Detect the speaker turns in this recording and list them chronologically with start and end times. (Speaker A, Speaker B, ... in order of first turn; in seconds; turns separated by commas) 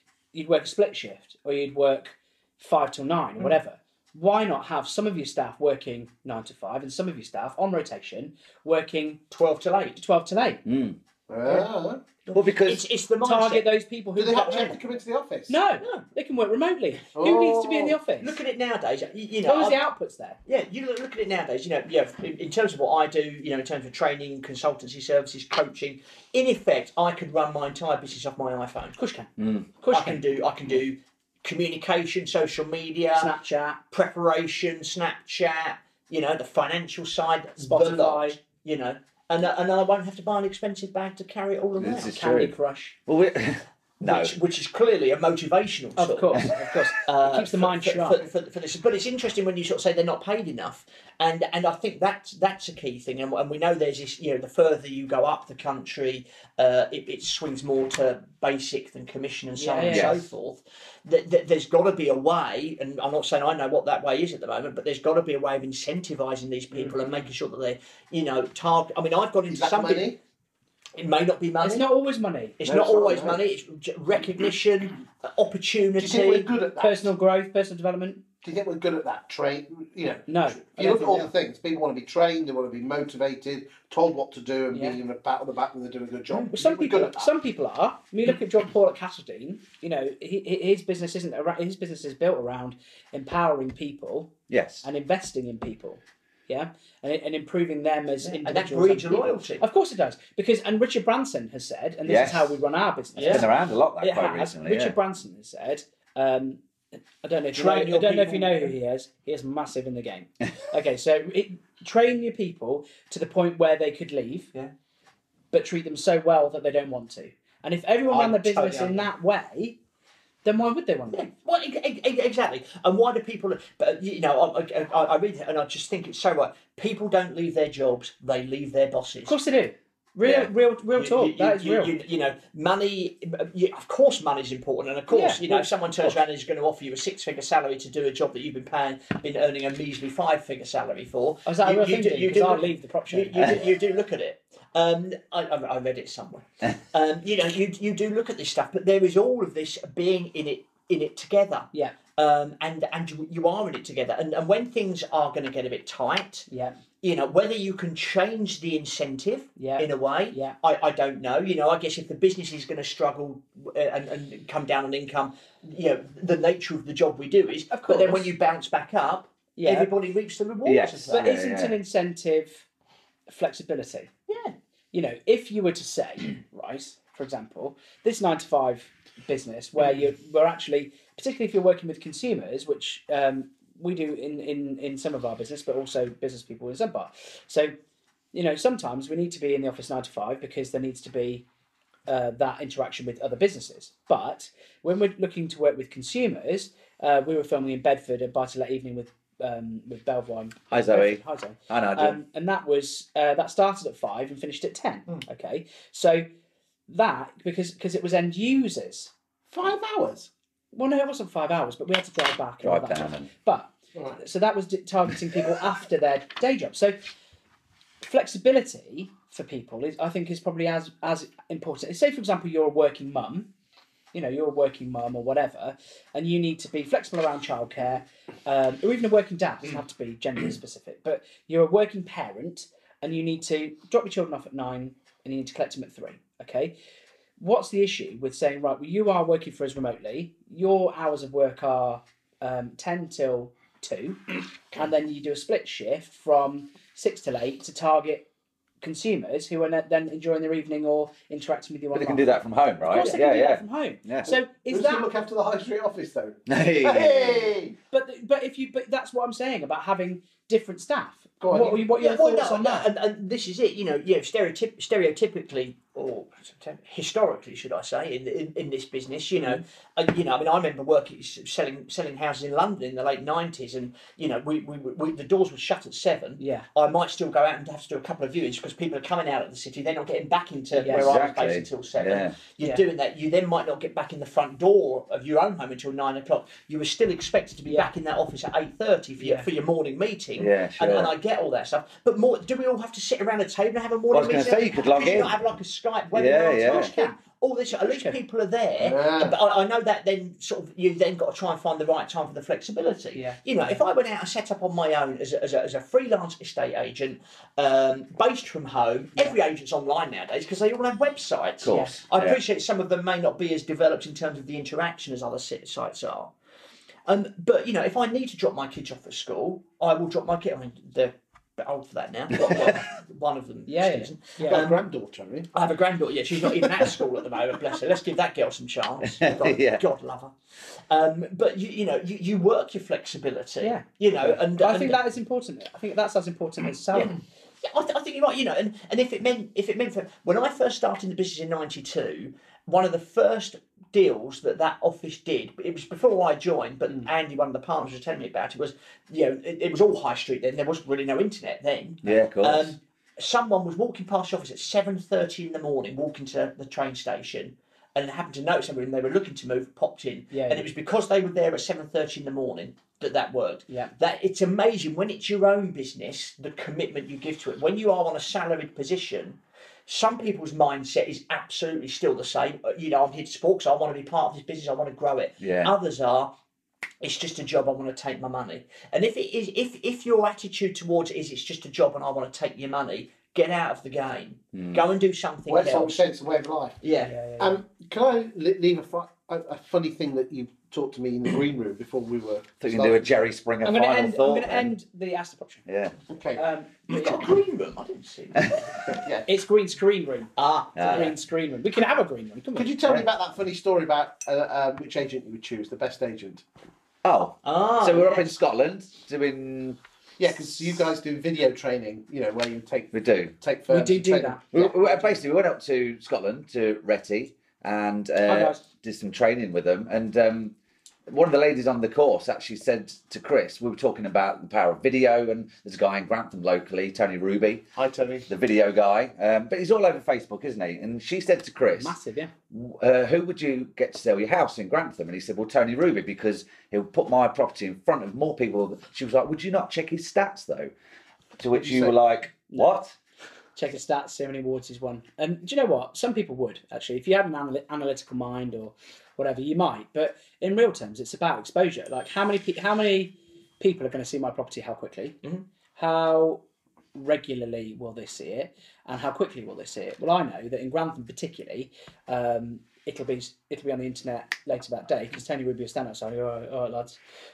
Speaker A: 0.3-9.2, Speaker B: 9.3-10.0, Speaker A: 10.0-10.6, Speaker C: 10.6-11.0, Speaker D: 11.3-12.0, Speaker B: 12.2-13.7, Speaker C: 12.3-12.8, Speaker A: 13.2-14.8, Speaker D: 14.2-15.6, Speaker A: 15.5-18.4, Speaker D: 17.1-18.0, Speaker B: 18.2-19.8, Speaker A: 19.4-20.4, Speaker B: 20.4-29.0, Speaker A: 29.0-30.2, Speaker C: 29.4-29.6, Speaker B: 29.9-33.3, Speaker A: 33.1-33.8, Speaker B: 33.9-42.1, Speaker A: 37.6-38.4, Speaker C: 41.8-42.5, Speaker A: 42.1-43.0, Speaker C: 43.0-44.4, Speaker B: 44.0-46.5, Speaker A: 46.0-48.2, Speaker B: 47.0-70.1, Speaker A: 59.6-60.3, Speaker C: 59.9-60.2, Speaker D: 69.5-70.2, Speaker B: 71.0-71.9, Speaker A: 71.6-72.6, Speaker B: 72.6-76.5, Speaker D: 72.6-73.4, Speaker D: 76.0-77.1, Speaker A: 76.8-78.2, Speaker D: 78.4-87.3, Speaker A: 80.3-81.3, Speaker A: 84.7-85.0, Speaker A: 86.5-114.5, Speaker C: 94.5-94.8, Speaker B: 98.2-99.6, Speaker C: 102.0-102.6, Speaker B: 103.2-103.5, Speaker C: 103.2-105.0, Speaker B: 107.5-108.7, Speaker A: 115.5-119.8, Speaker B: 118.1-119.1, Speaker A: 120.4-121.3, Speaker B: 121.1-129.3, Speaker A: 129.2-131.9, Speaker B: 130.9-156.5, Speaker A: 135.1-136.1, Speaker A: 141.4-143.6, Speaker A: 156.5-156.8, Speaker B: 157.0-171.3, Speaker A: 159.6-160.6, Speaker A: 167.7-168.3, Speaker A: 169.6-169.9, Speaker C: 170.6-171.7, Speaker A: 171.1-172.6, Speaker A: 173.3-174.1, Speaker B: 174.3-174.5, Speaker A: 174.9-187.7, Speaker A: 188.3-191.4, Speaker A: 192.1-206.2, Speaker C: 200.7-202.2, Speaker A: 206.9-209.1, Speaker D: 209.5-210.3, Speaker A: 210.7-217.0, Speaker C: 212.6-213.3, Speaker A: 218.0-223.5, Speaker A: 224.1-236.7, Speaker A: 237.4-248.3, Speaker A: 248.8-255.1, Speaker C: 251.9-254.3, Speaker D: 254.3-257.7, Speaker C: 256.5-257.5, Speaker A: 257.9-262.9, Speaker D: 261.4-261.8, Speaker B: 261.6-316.3, Speaker A: 269.4-269.6, Speaker A: 276.4-276.6, Speaker A: 280.7-281.1, Speaker C: 280.9-282.3, Speaker A: 287.6-287.9, Speaker A: 289.2-289.5, Speaker C: 290.4-291.1, Speaker C: 294.1-295.4, Speaker C: 296.1-296.9, Speaker A: 296.6-297.2, Speaker A: 297.9-298.1, Speaker D: 298.8-299.4, Speaker A: 303.1-303.7, Speaker C: 311.6-312.4, Speaker A: 311.7-312.0, Speaker B: 317.1-324.8, Speaker A: 323.7-324.6, Speaker D: 324.5-325.5, Speaker B: 325.5-330.3, Speaker C: 329.2-329.8, Speaker B: 330.9-335.0, Speaker A: 333.6-337.2, Speaker B: 336.9-376.3, Speaker C: 352.0-352.8, Speaker A: 360.3-360.7, Speaker C: 375.4-375.7, Speaker B: 377.0-386.1, Speaker C: 384.5-384.8, Speaker D: 385.5-386.8, Speaker B: 386.8-387.1, Speaker A: 387.0-387.6, Speaker D: 387.4-393.3, Speaker C: 392.6-394.7, Speaker A: 393.6-395.6, Speaker C: 395.6-395.9, Speaker D: 396.1-396.5, Speaker A: 396.4-397.3, Speaker B: 396.9-398.9, Speaker D: 398.9-399.3, Speaker A: 399.3-402.8, Speaker B: 400.4-401.1, Speaker C: 400.7-401.1, Speaker D: 402.5-406.4, Speaker C: 407.0-409.8, Speaker B: 407.4-408.3, Speaker D: 410.2-414.8, Speaker C: 412.9-413.3, Speaker A: 413.7-414.4, Speaker C: 414.5-420.5, Speaker A: 418.2-418.6, Speaker C: 421.1-427.6, Speaker D: 427.8-428.3, Speaker C: 428.3-431.9, Speaker A: 431.7-432.3, Speaker C: 432.5-440.7, Speaker C: 441.4-442.9, Speaker D: 441.6-441.9, Speaker A: 443.6-455.2, Speaker A: 455.8-456.4, Speaker A: 456.9-467.0